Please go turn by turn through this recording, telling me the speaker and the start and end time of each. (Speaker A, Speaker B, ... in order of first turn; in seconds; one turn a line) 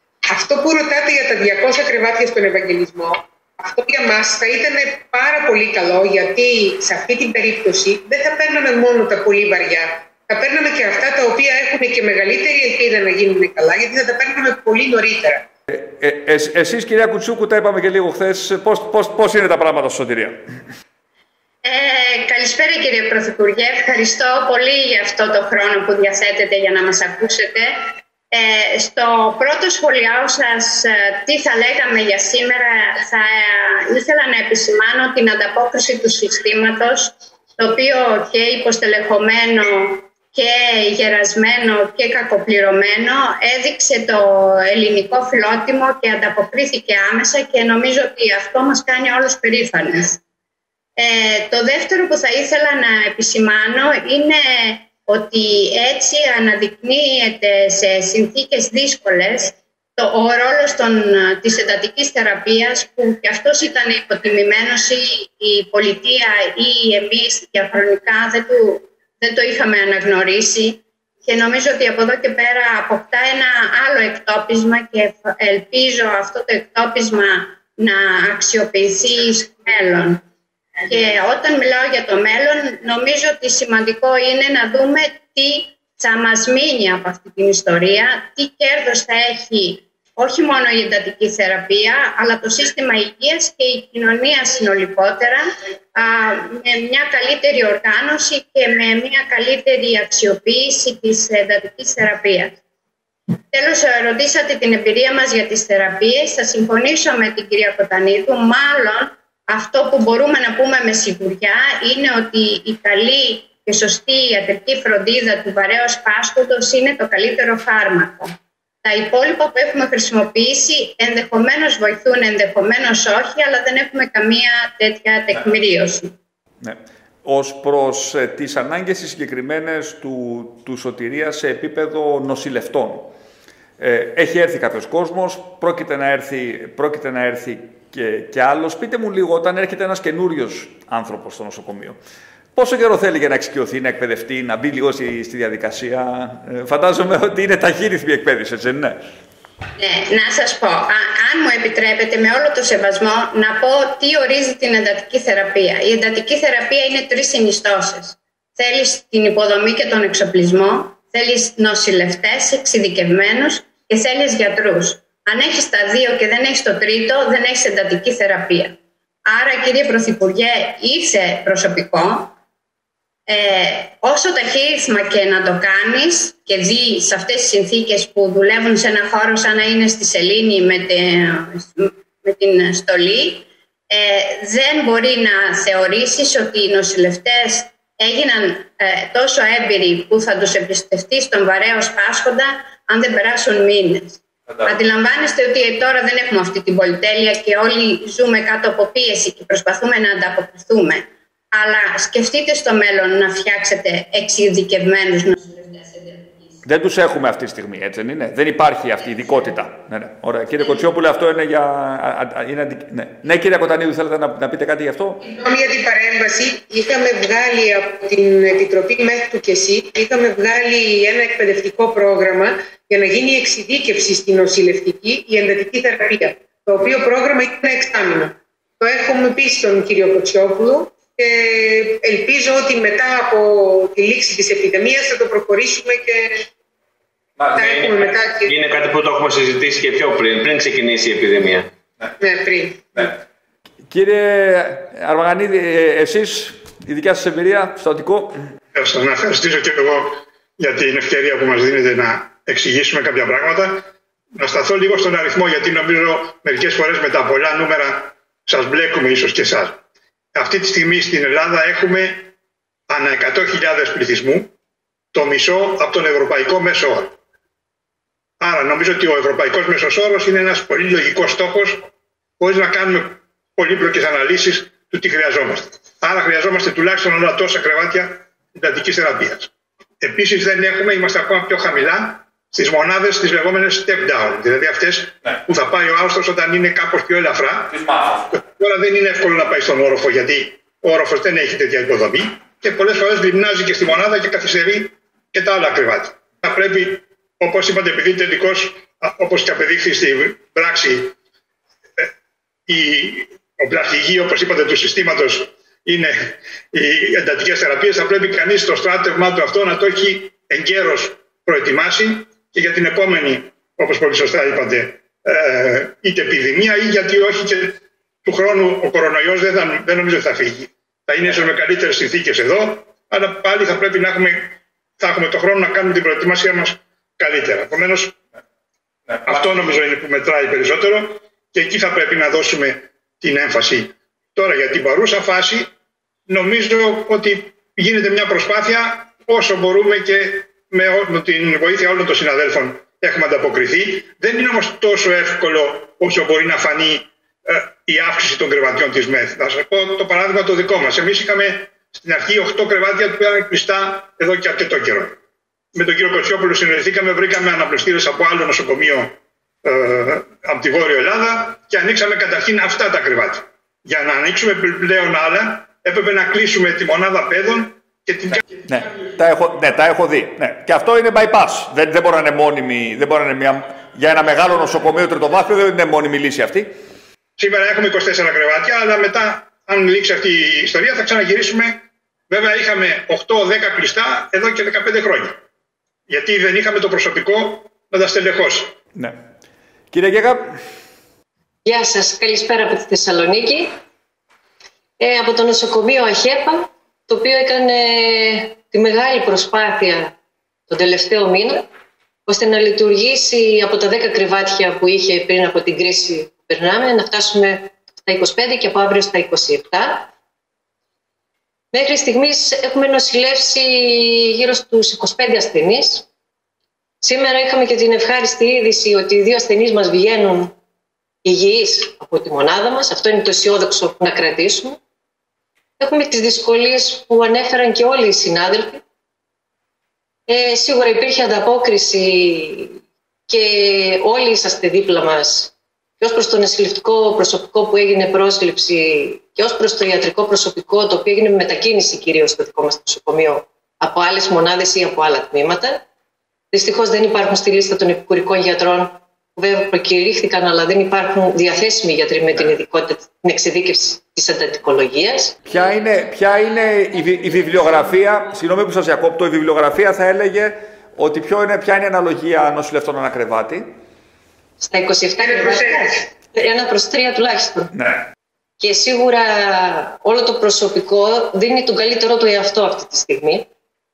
Speaker A: 0.3-15.5
Speaker B: 15.7-20.4
Speaker C: 21.6-27.7
Speaker C: 28.3-50.2
Speaker C: 51.0-80.2
Speaker C: 80.9-95.4
Speaker C: 96.0-102.6
Speaker C: 103.5-118.3
Speaker C: 118.8-126.1
Speaker B: 126.6-133.1
Speaker B: 133.8-142.0
Speaker B: 142.6-149.0
Speaker C: 149.8-172.3
Speaker C: 173.3-206.5
Speaker B: 206.6-215.2
Speaker A: 215.2-236.5
Speaker A: 237.6-238.6
Speaker D: 237.6-237.9
Speaker D: 238.5-241.7
Speaker A: 242.2-243.1
Speaker B: 243.9-248.4
Speaker E: 248.7-259.8
Speaker E: 260.4-262.3
Speaker E: 262.9-264.5
Speaker E: 265.1-267.2
Speaker E: 268.4-271.9
Speaker E: 272.4-279.5
Speaker E: 280.0-287.8
Speaker B: 287.8-288.2
Speaker E: 288.3-301.1
Speaker E: 302.7-328.2
Speaker E: 329.2-335.7
Speaker E: 336.3-355.2
Speaker E: 355.7-368.4
Speaker B: 368.7-376.7
Speaker E: 377.4-385.4
Speaker E: 386.1-388.8
Speaker B: 389.9-390.6
Speaker F: 391.7-393.7
Speaker F: 395.0-400.1
Speaker F: 400.7-401.7
Speaker F: 402.3-410.1
Speaker F: 411.7-416.1
Speaker F: 417.0-420.5
Speaker F: 421.2-424.8
Speaker F: 425.8-428.8
Speaker F: 430.3-432.8
Speaker F: 433.3-445.8
Speaker F: 446.5-455.4
Speaker B: 455.5-463.6
Speaker F: 464.6-467.7
Speaker A: 465.2-465.9
Speaker B: 467.7-468.0
Speaker F: 468.6-473.5